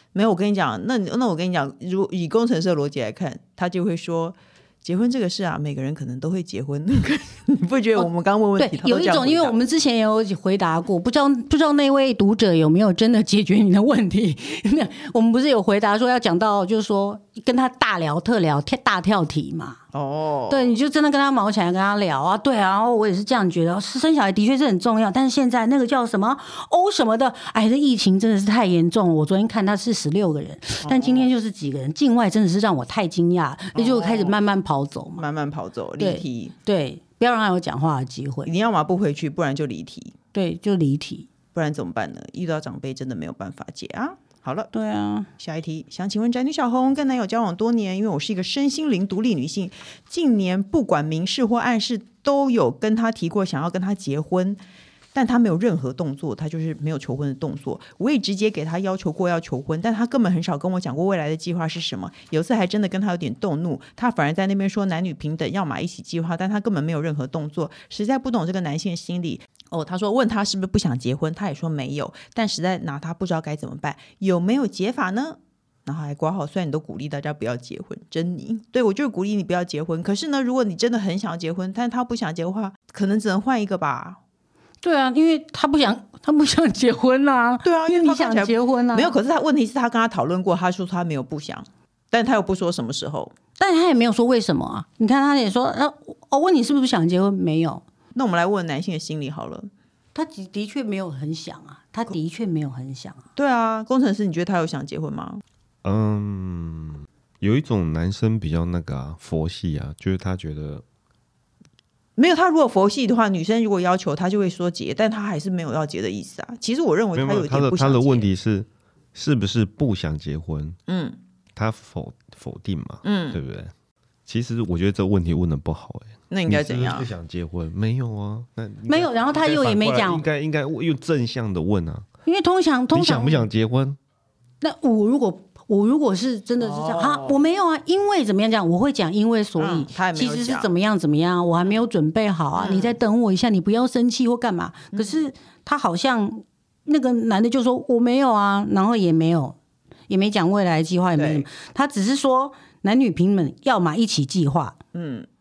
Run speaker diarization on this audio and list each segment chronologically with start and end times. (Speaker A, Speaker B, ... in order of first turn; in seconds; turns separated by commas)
Speaker A: 0.1-9.6, Speaker B: 8.6-19.8, Speaker A: 19.9-20.7, Speaker B: 20.5-35.2, Speaker A: 30.8-31.3, Speaker A: 33.7-34.4, Speaker A: 35.2-36.5, Speaker B: 36.0-38.5, Speaker A: 38.5-40.1, Speaker B: 40.3-41.3, Speaker A: 41.5-44.7, Speaker B: 44.7-45.3, Speaker A: 45.4-54.6, Speaker A: 55.1-84.2, Speaker B: 84.8-89.2, Speaker A: 87.6-93.3, Speaker B: 93.6-97.8, Speaker A: 98.1-99.7, Speaker B: 100.1-103.2, Speaker A: 103.3-105.4, Speaker C: 105.8-110.8, Speaker A: 112.2-118.3, Speaker C: 117.1-120.8, Speaker A: 120.9-121.2, Speaker C: 121.5-123.7, Speaker A: 123.0-123.4, Speaker C: 124.3-132.1, Speaker A: 126.3-127.1, Speaker B: 128.8-130.2, Speaker B: 132.2-133.5, Speaker C: 132.9-134.0, Speaker B: 134.6-149.6, Speaker A: 136.6-137.4, Speaker A: 139.6-140.7, Speaker A: 142.5-143.0, Speaker A: 144.9-145.2, Speaker B: 150.1-154.8, Speaker A: 151.2-151.5, Speaker A: 154.9-155.3